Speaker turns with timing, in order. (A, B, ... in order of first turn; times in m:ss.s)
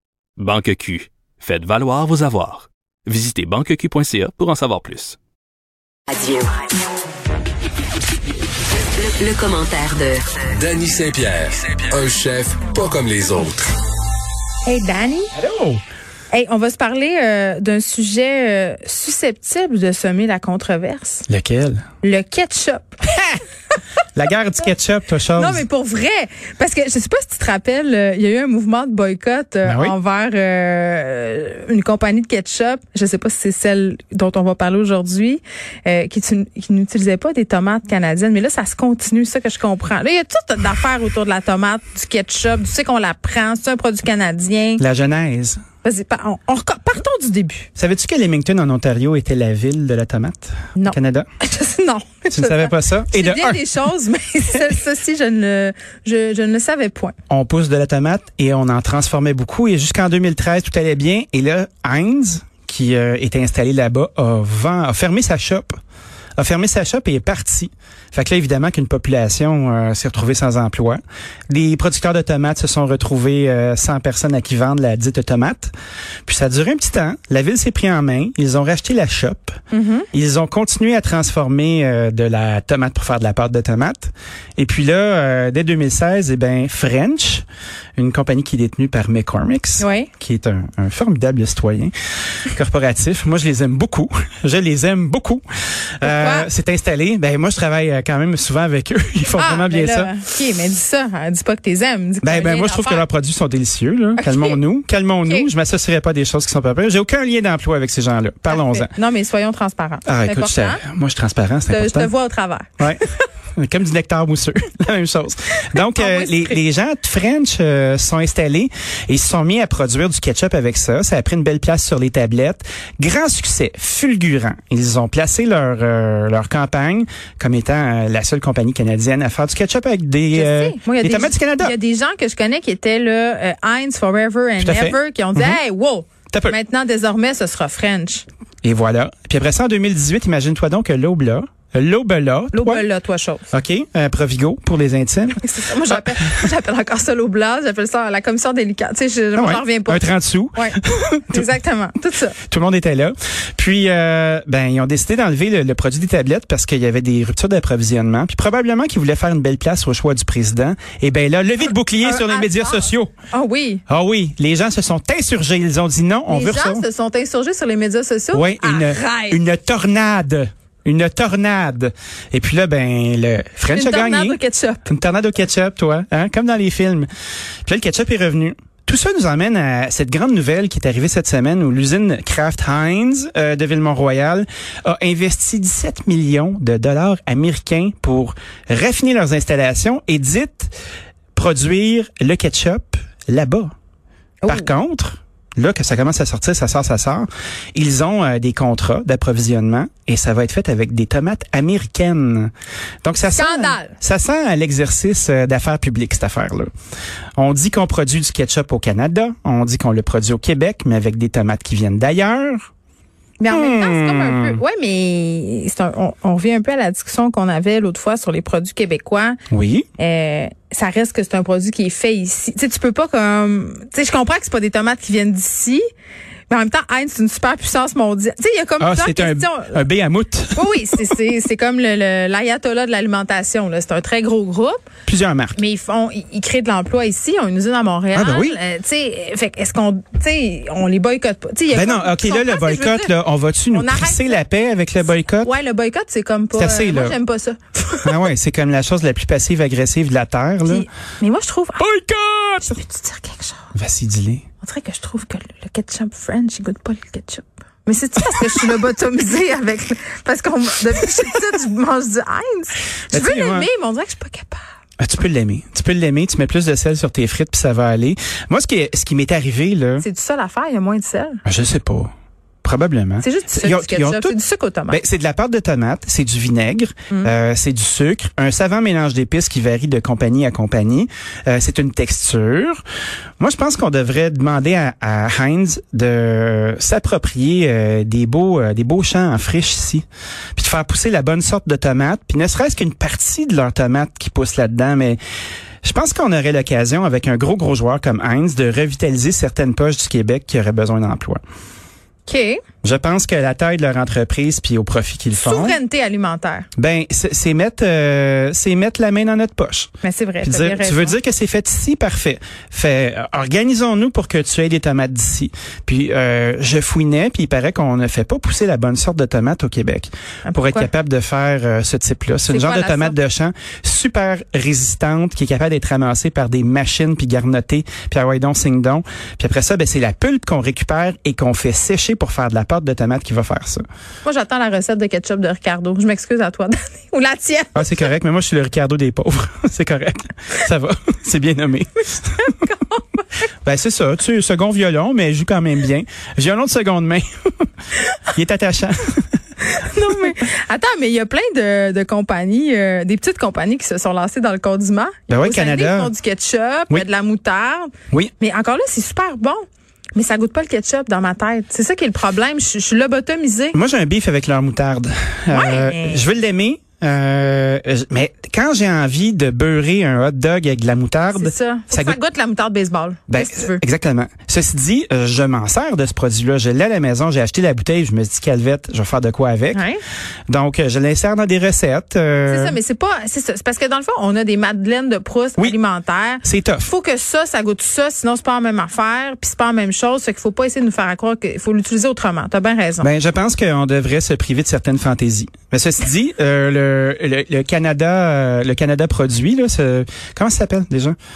0:00.4-0:05.2 A
0:06.1-0:06.6 B
0:08.9-0:10.4 B
0:10.5-0:13.7 C
0:14.6-0:15.3 D
0:15.3-0:15.8 E
0:16.3-0:21.2 D
0:21.3-0:21.8 E
0:22.0-0:23.1 D
0:24.2-0:25.6 E
0:25.4-0:44.8 D
0:29.6-0:29.9 E
0:44.8-0:45.6 E
0:45.8-0:47.7 D
0:47.8-0:51.3 E
0:50.8-0:57.1 D
0:52.3-0:53.6 E
0:57.3-1:05.7 E
1:06.4-1:15.7 E
1:16.2-1:19.6 E
1:19.7-1:20.1 D
1:20.1-1:27.4 E
1:28.0-1:31.9 E
1:29.8-1:30.1 D
1:32.5-1:35.4 E
1:36.0-1:40.1 E
1:36.0-1:36.5 D
1:39.4-1:43.0 D
1:42.2-1:48.9 E
1:44.2-1:44.6 D
1:48.5-1:50.8 D
1:50.0-1:52.1 E
1:51.7-1:52.9 D
1:53.6-2:11.7 E
1:55.7-1:56.6 D
2:10.3-2:18.2 D
2:14.6-2:15.6 E
2:18.6-2:22.8 E
2:22.5-2:23.5 D
2:23.5-2:26.4 E
2:25.4-2:32.4 D
2:29.3-2:31.5 E
2:32.4-2:43.1 E
2:42.0-2:43.8 D
2:43.9-2:46.8 E
2:46.3-2:49.4 D
2:48.3-2:57.1 E
2:53.7-2:54.8 D
2:57.6-3:10.7 E
3:11.3-3:13.7 E
3:14.4-3:14.7 D
3:14.5-3:22.5 E
3:23.0-3:26.7 E
3:23.2-3:23.9 D
3:27.4-3:32.7 E
3:33.4-3:39.4 D
3:33.5-3:34.6 E
3:39.5-3:39.9 E
3:40.0-3:45.8 D
3:46.5-3:49.8 D
3:48.8-3:51.0 E
3:50.5-3:54.8 D
3:55.0-3:55.6 E
3:55.6-4:03.1 D
3:58.1-3:58.6 E
4:01.7-4:05.5 E
4:03.7-4:04.4 D
4:05.4-4:08.2 D
4:06.5-4:07.2 E
4:08.0-4:10.8 E
4:10.6-4:11.8 D
4:11.8-4:12.7 E
4:12.6-4:13.7 D
4:13.7-4:14.4 E
4:14.6-4:24.6 D
4:23.1-4:23.7 E
4:25.0-4:30.0 E
4:30.0-4:31.4 D
4:31.4-4:32.1 E
4:32.6-4:34.4 E
4:33.2-4:35.0 D
4:34.9-4:42.8 E
4:43.4-4:50.0 E
4:50.6-4:55.2 E
4:55.8-5:01.4 E
5:02.2-5:02.6 D
5:02.8-5:05.8 E
5:05.4-5:06.6 D
5:06.8-5:09.9 E
5:10.0-5:11.2 D
5:10.4-5:33.8 E
5:20.4-5:20.9 D
5:22.5-5:23.1 D
5:34.2-5:37.9 D
5:37.7-5:42.5 E
5:42.4-5:43.2 D
5:43.6-5:47.3 E
5:48.3-5:49.2 E
5:49.6-5:59.6 D
5:55.3-5:56.1 E
6:00.1-6:03.8 D
6:03.7-6:12.2 E
6:05.5-6:06.2 D
6:11.3-6:13.8 D
6:13.3-6:19.8 E
6:19.7-6:20.0 D
6:20.5-6:22.8 E
6:22.5-6:33.1 D
6:26.4-6:26.9 E
6:33.0-6:41.2 E